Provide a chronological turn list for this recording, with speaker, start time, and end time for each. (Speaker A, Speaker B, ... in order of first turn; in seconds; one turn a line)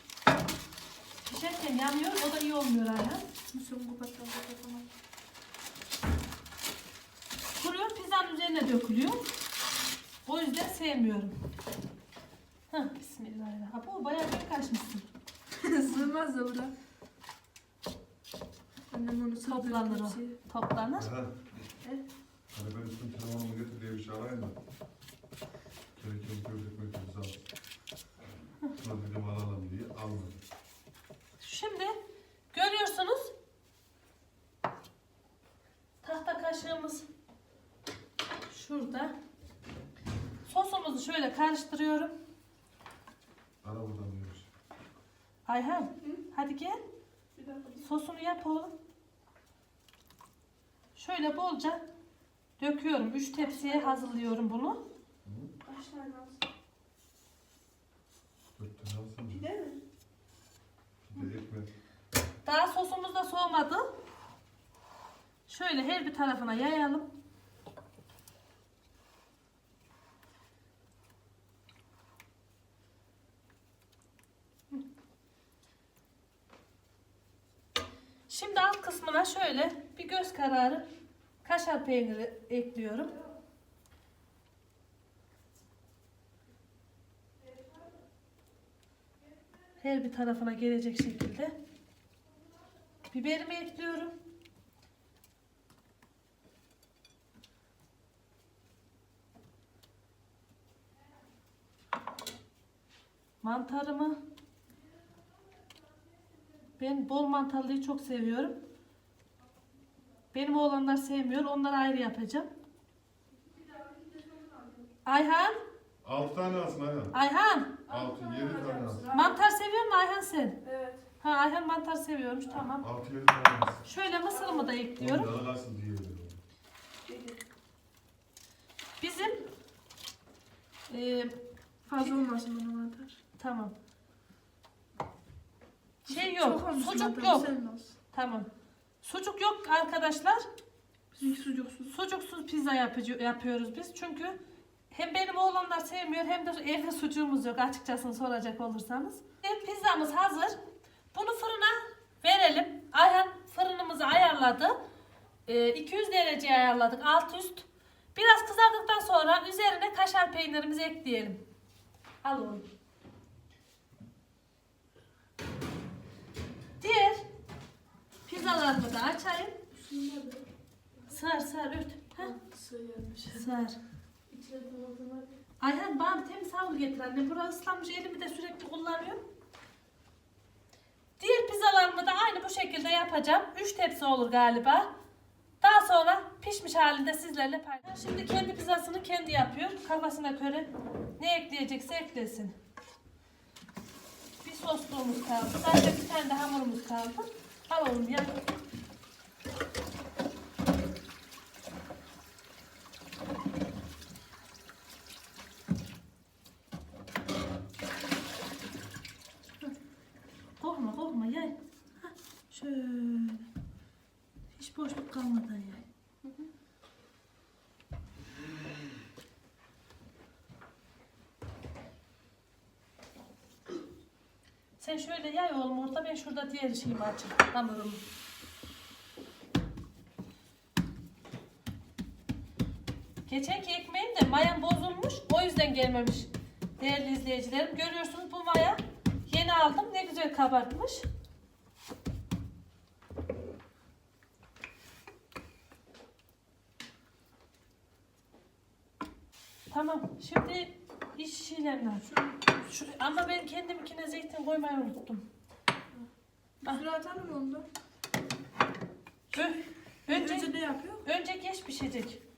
Speaker A: 1.2-3.3
Speaker B: 3.5-4.9
Speaker A: 7.6-9.3
Speaker A: 10.3-11.4
Speaker A: 12.7-15.1
Speaker B: 15.6-16.7
Speaker B: 18.9-20.4
Speaker A: 19.4-21.1
Speaker C: 21.0-21.3
Speaker C: 22.5-24.6
Speaker C: 26.0-27.4
Speaker C: 28.8-30.4
Speaker A: 31.4-32.0
Speaker A: 32.5-33.3
Speaker A: 36.0-37.0
Speaker A: 38.5-39.1
Speaker A: 40.5-42.1
Speaker C: 43.6-44.5
Speaker A: 45.5-46.8
Speaker B: 47.4-47.9
Speaker A: 47.8-48.8
Speaker A: 51.0-51.9
Speaker A: 52.6-54.8
Speaker B: 53.5-54.0
Speaker C: 55.2-55.5
Speaker B: 55.6-56.4
Speaker C: 58.6-59.5
Speaker B: 59.3-59.8
Speaker C: 61.1-61.7
Speaker A: 62.5-63.9
Speaker A: 65.5-67.1
Speaker A: 78.3-80.9
Speaker A: 81.4-83.2
Speaker A: 89.8-91.6
Speaker A: 93.1-94.2
Speaker A: 103.4-104.2
Speaker A: 106.8-108.6
Speaker A: 110.3-112.5
Speaker B: 113.4-114.9
Speaker A: 115.1-115.6
Speaker C: 116.0-117.2
Speaker A: 117.1-117.8
Speaker C: 117.9-119.1
Speaker B: 117.9-119.4
Speaker A: 119.1-120.6
Speaker B: 120.6-121.0
Speaker A: 121.2-122.9
Speaker C: 122.8-123.8
Speaker A: 123.8-125.3
Speaker B: 124.3-124.8
Speaker C: 125.0-126.4
Speaker B: 127.0-127.4
Speaker A: 129.0-129.4
Speaker A: 130.9-131.4
Speaker B: 131.9-133.2
Speaker A: 133.4-133.7
Speaker A: 136.1-137.5
Speaker B: 136.1-137.9
Speaker A: 138.1-138.5
Speaker A: 139.0-140.4
Speaker B: 141.1-141.9
Speaker A: 141.9-144.4
Speaker A: 144.9-150.6
Speaker A: 151.1-154.8
Speaker A: 155.5-161.4
Speaker A: 162.2-162.7
Speaker A: 166.8-167.3
Speaker A: 168.3-169.6
Speaker B: 169.7-170.4
Speaker A: 171.1-172.4
Speaker B: 172.2-173.5
Speaker A: 173.3-173.8
Speaker B: 174.3-175.4
Speaker A: 175.6-179.2
Speaker A: 181.2-184.9
Speaker A: 185.6-192.6
Speaker A: 194.4-198.3
Speaker A: 210.6-213.4
Speaker A: 214.5-215.8
Speaker A: 224.8-228.0
Speaker A: 233.3-241.1
Speaker A: 249.7-255.2
Speaker B: 256.6-257.7
Speaker A: 259.3-260.5
Speaker B: 260.1-261.0
Speaker A: 261.0-262.2